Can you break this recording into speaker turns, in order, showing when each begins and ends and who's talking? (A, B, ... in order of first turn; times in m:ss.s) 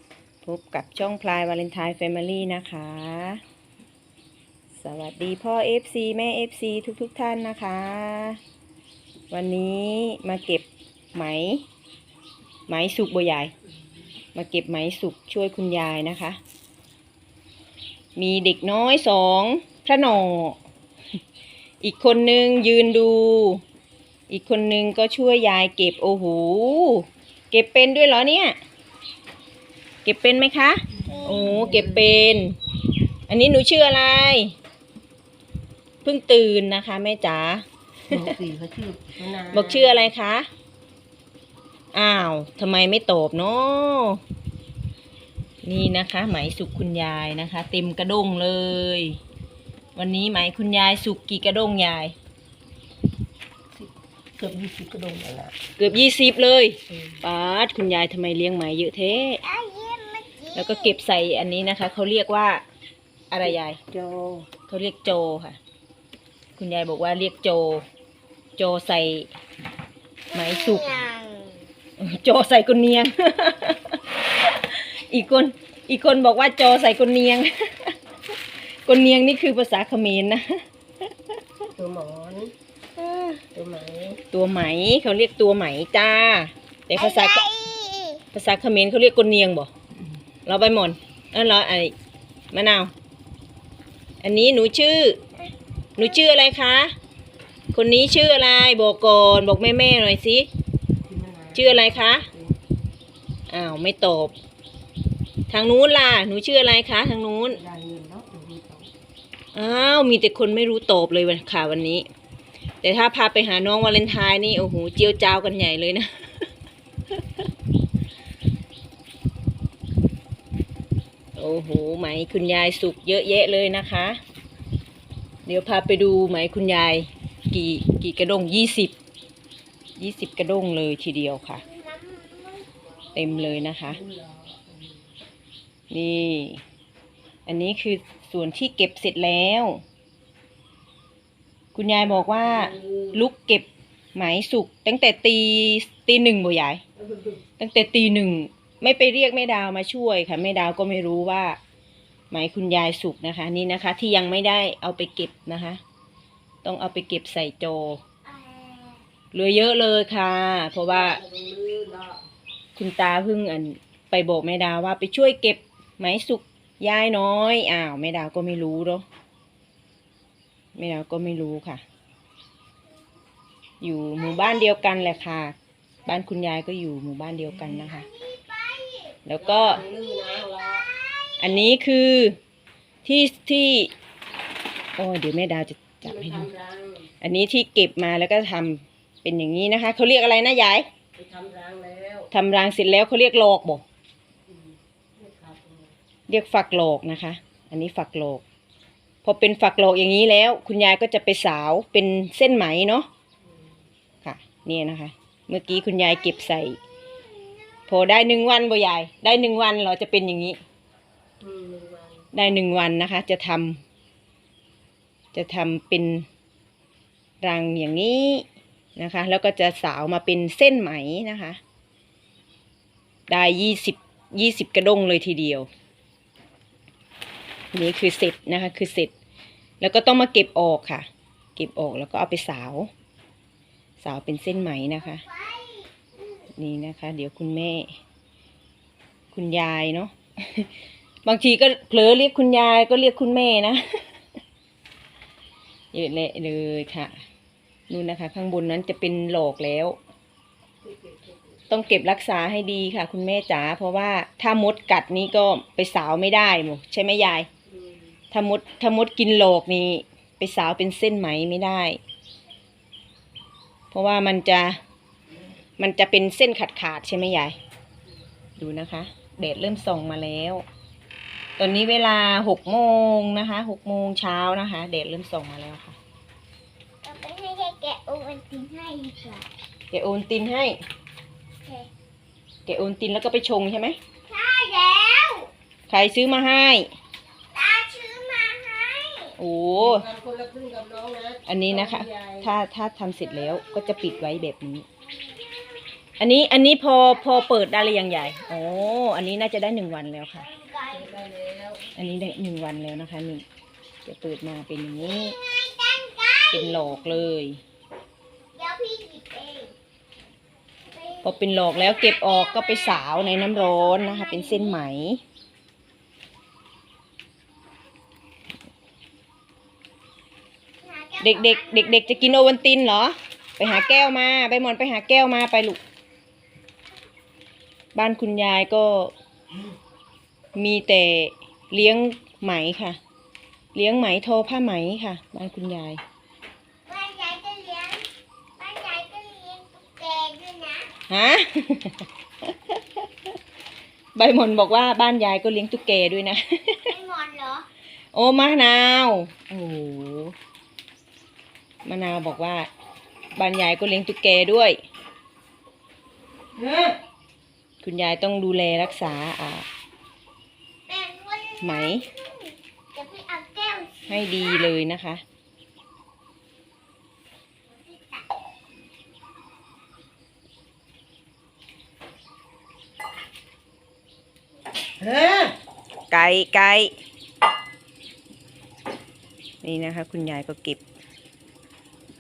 0:00.4-0:03.4 A
0:04.8-0:08.4 A
0:09.3-0:11.6 A
0:12.7-0:13.5 A
0:14.3-0:16.4 A
0:18.2-0:20.6 A
0:21.8-0:23.6 A
0:24.3-0:28.6 A
0:30.0-0:32.6 A
0:31.1-0:32.3 B
0:31.1-0:31.4 C
0:33.3-0:34.6 A
0:36.0-0:38.2 A
0:38.1-0:40.1 B
0:39.5-0:40.5 A
0:41.9-0:44.2 A
0:45.6-0:49.2 A
0:50.0-0:52.2 A
0:53.7-0:55.6 B
0:55.8-0:59.4 A
0:59.3-1:01.0 C
1:00.5-1:02.6 A
1:03.3-1:03.8 A
1:03.4-1:04.5 B
1:04.7-1:05.6 A
1:06.6-1:07.8 A
1:08.6-1:09.3 A
1:10.3-1:11.0 A
1:10.3-1:11.7 C
1:12.0-1:14.0 A
1:14.5-1:18.0 A
1:18.8-1:20.6 A
1:21.8-1:22.5 B
1:23.0-1:23.4 A
1:23.5-1:24.2 B
1:24.3-1:27.5 A
1:27.0-1:28.2 C
1:28.3-1:29.7 A
1:30.5-1:31.9 A
1:32.5-1:32.9 A
1:34.2-1:35.2 A
1:36.0-1:36.9 A
1:37.7-1:40.5 A
1:41.0-1:42.6 B
1:41.6-1:42.3 A
1:43.5-1:44.3 A
1:45.5-1:47.6 A
1:47.5-1:48.9 B
1:49.6-1:52.1 A
1:52.8-1:56.5 A
2:01.4-2:04.2 A
2:05.5-2:09.0 A
2:10.0-2:11.6 A
2:11.6-2:13.6 C
2:13.2-2:14.0 A
2:13.9-2:15.0 B
2:15.9-2:16.6 A
2:17.5-2:19.8 A
2:21.8-2:26.8 A
2:22.2-2:23.2 B
2:27.1-2:27.4 B
2:27.6-2:31.6 A
2:32.3-2:35.8 A
2:36.6-2:38.0 A
2:38.3-2:39.0 C
2:39.3-2:41.2 A
2:40.9-2:42.2 B
2:42.8-2:49.0 A
2:50.8-2:51.8 A
2:53.8-2:58.1 A
2:57.8-2:59.2 C
2:59.3-2:59.8 A
2:59.4-3:00.9 B
3:00.8-3:01.5 C
3:01.4-3:02.4 A
3:03.0-3:03.9 A
3:05.0-3:06.5 A
3:06.0-3:07.1 B
3:07.2-3:10.9 A
3:11.2-3:12.3 B
3:12.3-3:13.8 A
3:14.5-3:16.0 B
3:16.3-3:18.4 A
3:19.2-3:23.1 A
3:23.5-3:23.7 B
3:24.2-3:26.8 A
3:27.9-3:30.6 A
3:31.4-3:32.3 B
3:32.3-3:33.8 A
3:35.3-3:36.3 A
3:37.4-3:38.4 A
3:39.0-3:41.6 A
3:43.3-3:45.7 A
3:47.7-3:49.1 A
3:49.8-3:52.9 A
3:54.0-3:55.2 A
3:55.1-3:56.1 C
3:56.6-3:58.0 A
3:59.3-4:00.7 A
4:01.2-4:04.0 A
4:05.9-4:07.1 A
4:07.9-4:10.0 A
4:10.8-4:11.6 B
4:11.7-4:17.5 A
4:17.7-4:18.1 B
4:18.3-4:22.0 A
4:23.9-4:24.8 A
4:25.8-4:27.6 A
4:28.6-4:30.6 A
4:31.6-4:36.0 A
4:37.0-4:39.5 C
4:39.9-4:40.8 A
4:41.6-4:41.9 C
4:42.7-4:44.0 A
4:44.3-4:45.5 C
4:45.9-4:46.9 A
4:47.5-4:49.4 C
4:49.4-4:50.0 A
4:49.8-4:52.5 B
4:51.5-4:54.9 A
4:55.1-4:55.8 C
4:56.2-5:00.5 A
4:57.1-4:58.8 C
5:00.4-5:01.1 C
5:00.9-5:01.8 B
5:02.0-5:03.4 A
5:04.0-5:05.4 A
5:05.2-5:07.2 C
5:06.5-5:07.6 A
5:08.6-5:09.7 C
5:10.9-5:14.8 C
5:11.2-5:15.2 A
5:20.8-5:22.4 C
5:21.2-5:25.8 A
5:28.0-5:29.1 A
5:30.6-5:33.0 A
5:33.7-5:36.0 A
5:36.9-5:38.0 C
5:38.6-5:40.9 C
5:41.1-5:42.8 A
5:44.2-5:46.9 A
5:46.9-5:47.7 C
5:48.1-5:50.4 A
5:51.8-5:52.7 A
5:53.4-5:54.8 A
5:57.8-5:59.7 A
6:00.9-6:04.7 C
6:01.6-6:02.1 A
6:04.1-6:05.2 A
6:07.7-6:08.2 C
6:15.0-6:15.5 B
6:16.1-6:16.9 A
6:19.6-6:20.8 A